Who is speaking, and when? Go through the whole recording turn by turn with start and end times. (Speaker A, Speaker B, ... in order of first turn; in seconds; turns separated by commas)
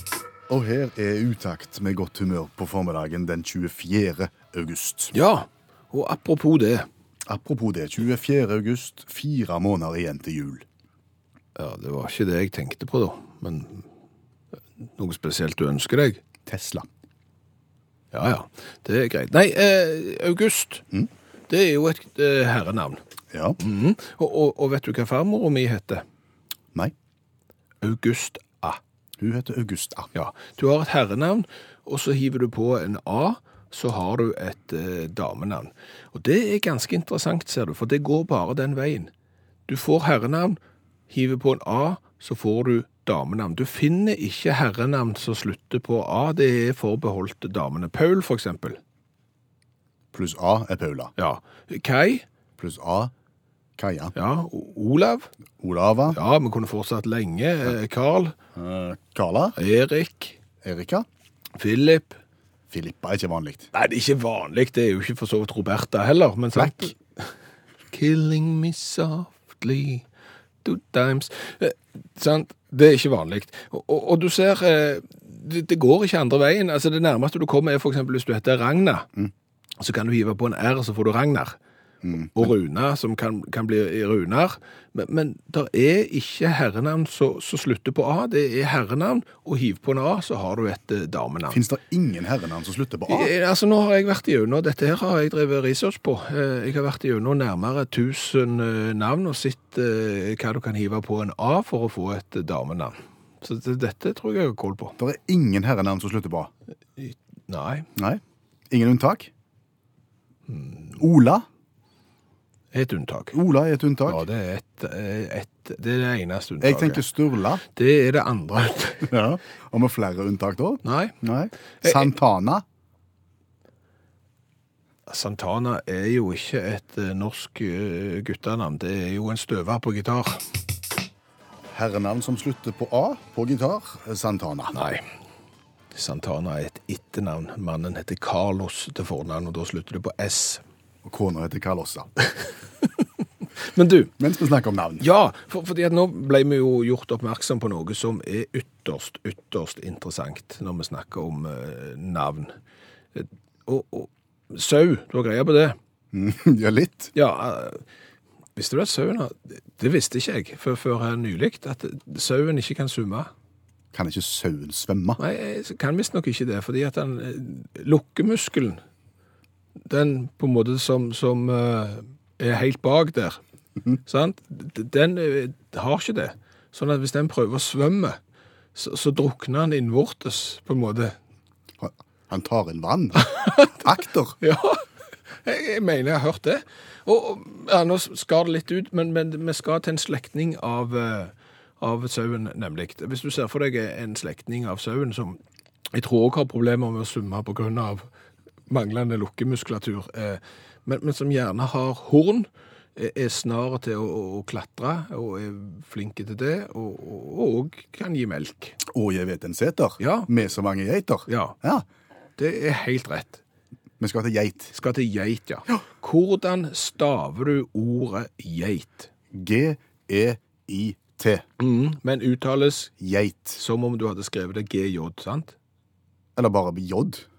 Speaker A: 0.5-5.1, Speaker B: 5.1-6.9, Speaker A: 7.3-10.7, Speaker B: 11.6-13.9, Speaker B: 14.8-16.2, Speaker A: 16.5-16.9, Speaker B: 18.1-20.9, Speaker B: 21.5-23.0, Speaker A: 23.3-23.6, Speaker B: 23.6-26.1, Speaker B: 27.8-28.8, Speaker A: 29.2-30.1, Speaker B: 30.1-39.1, Speaker B: 39.7-48.8, Speaker A: 50.1-51.1, Speaker B: 51.2-52.2, Speaker A: 52.6-53.1, Speaker A: 53.8-54.1, Speaker B: 54.1-55.3, Speaker A: 55.6-56.2, Speaker B: 56.1-58.4, Speaker A: 58.5-59.6, Speaker B: 59.6-60.4, Speaker A: 60.6-61.1, Speaker B: 61.6-62.2, Speaker A: 62.7-63.7, Speaker B: 63.7-67.3, Speaker A: 66.5-66.9, Speaker B: 67.9-70.0, Speaker B: 70.6-79.1, Speaker B: 79.8-81.6, Speaker A: 82.0-82.5, Speaker B: 82.3-91.6, Speaker A: 91.5-93.3, Speaker B: 93.1-105.0, Speaker A: 105.0-106.5, Speaker B: 107.0-107.9, Speaker A: 108.0-109.3, Speaker B: 110.5-111.0, Speaker A: 111.0-111.5, Speaker B: 112.7-113.4, Speaker A: 113.3-114.2, Speaker B: 114.1-117.0, Speaker A: 116.6-117.6, Speaker B: 117.6-119.1, Speaker A: 119.1-122.6, Speaker B: 120.8-121.2, Speaker B: 121.8-122.1, Speaker B: 125.1-130.4, Speaker A: 131.7-134.8, Speaker B: 134.7-135.1, Speaker B: 135.9-140.6, Speaker A: 141.0-142.1, Speaker B: 143.6-144.1, Speaker A: 144.2-145.1, Speaker B: 145.0-152.6, Speaker B: 153.2-155.8, Speaker A: 156.1-157.1, Speaker B: 157.1-157.8, Speaker B: 158.6-163.3, Speaker A: 163.9-165.2, Speaker B: 165.2-168.8, Speaker B: 169.8-173.4, Speaker B: 174.1-178.2, Speaker B: 178.8-181.2, Speaker A: 181.8-184.4, Speaker B: 183.2-183.8, Speaker B: 184.4-184.8, Speaker B: 185.4-195.4, Speaker B: 195.9-198.1, Speaker B: 198.7-208.8, Speaker A: 208.8-211.9, Speaker B: 210.0-210.3, Speaker B: 211.3-211.6, Speaker B: 212.4-213.4, Speaker A: 214.0-214.7, Speaker B: 214.7-219.1, Speaker A: 219.3-221.4, Speaker B: 221.6-222.9, Speaker A: 223.0-223.6, Speaker B: 223.6-225.6, Speaker A: 226.4-227.3